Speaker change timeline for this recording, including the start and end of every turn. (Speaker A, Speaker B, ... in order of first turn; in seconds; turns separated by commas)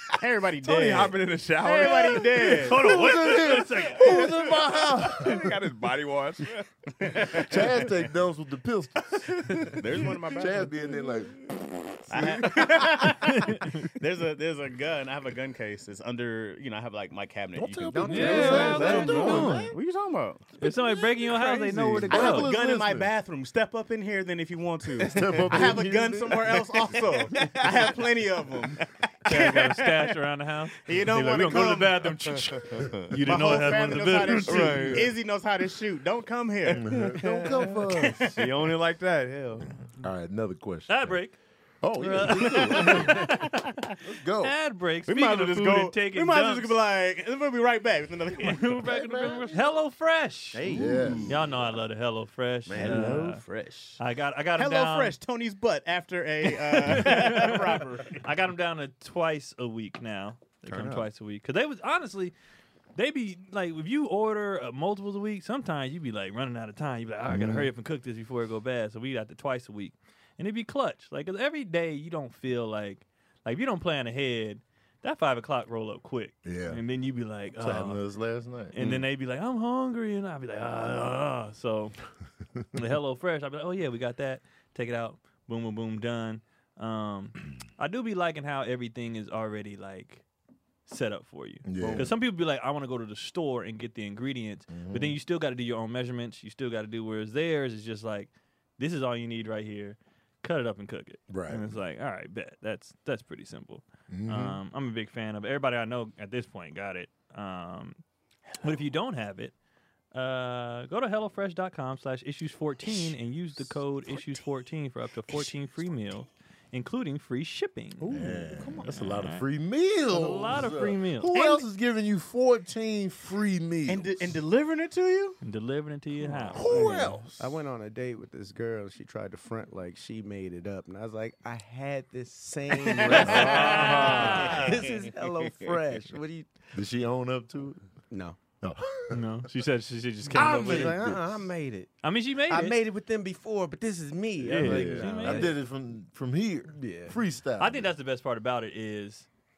Speaker A: 0.2-2.9, Speaker B: 0.6-2.6, Speaker C: 2.6-4.4, Speaker D: 2.7-5.5, Speaker B: 4.0-7.5, Speaker A: 7.0-7.7, Speaker D: 7.3-9.8, Speaker A: 9.7-10.8, Speaker D: 10.3-13.1, Speaker A: 12.1-20.6, Speaker C: 13.1-13.8, Speaker D: 17.5-19.8, Speaker E: 17.9-19.5, Speaker C: 18.1-19.7, Speaker B: 18.2-19.6, Speaker C: 20.6-22.5, Speaker D: 21.3-23.1, Speaker A: 22.1-30.2, Speaker D: 25.0-27.5, Speaker B: 25.1-25.7, Speaker B: 27.3-27.6, Speaker C: 29.2-35.0, Speaker A: 30.8-38.4, Speaker B: 32.6-33.1, Speaker D: 33.3-35.1, Speaker B: 34.4-35.1, Speaker D: 36.7-38.4, Speaker B: 38.3-39.7, Speaker D: 39.8-41.3, Speaker C: 40.9-41.4, Speaker D: 41.8-43.4, Speaker C: 41.9-46.8, Speaker A: 42.3-43.4, Speaker D: 44.0-44.5, Speaker A: 45.0-48.9, Speaker C: 48.4-53.4, Speaker D: 48.8-49.6, Speaker B: 50.5-51.6, Speaker D: 50.7-51.4, Speaker B: 52.6-54.0, Speaker D: 52.8-53.2, Speaker A: 52.8-53.2, Speaker C: 54.0-55.1, Speaker A: 54.5-58.2, Speaker C: 56.5-62.3, Speaker B: 60.6-61.1, Speaker C: 62.9-78.0, Speaker D: 67.3-67.7, Speaker D: 76.4-76.8, Speaker D: 77.6-79.0, Speaker C: 78.7-82.0, Speaker C: 82.7-90.2, Speaker C: 90.8-108.0, Speaker D: 91.6-92.2, Speaker B: 91.8-92.1, Speaker D: 94.7-95.2, Speaker D: 101.3-101.7, Speaker D: 104.1-104.6, Speaker C: 108.6-109.5, Speaker C: 110.1-118.1, Speaker A: 118.0-118.9, Speaker D: 118.1-124.4, Speaker C: 118.8-119.4, Speaker C: 120.1-121.4, Speaker A: 121.3-121.6, Speaker A: 123.8-125.4, Speaker C: 125.4-127.0, Speaker A: 126.3-127.0, Speaker B: 126.5-127.2, Speaker D: 126.5-127.5, Speaker E: 126.7-136.5, Speaker D: 133.1-134.6, Speaker C: 133.1-134.9, Speaker A: 133.2-134.7, Speaker D: 136.7-137.8, Speaker E: 138.1-138.4, Speaker D: 138.6-139.2, Speaker C: 139.1-141.2, Speaker D: 140.3-141.3, Speaker E: 140.3-145.6, Speaker C: 142.0-142.8, Speaker C: 144.4-145.5, Speaker D: 144.4-147.9, Speaker E: 146.7-147.2, Speaker C: 147.6-149.3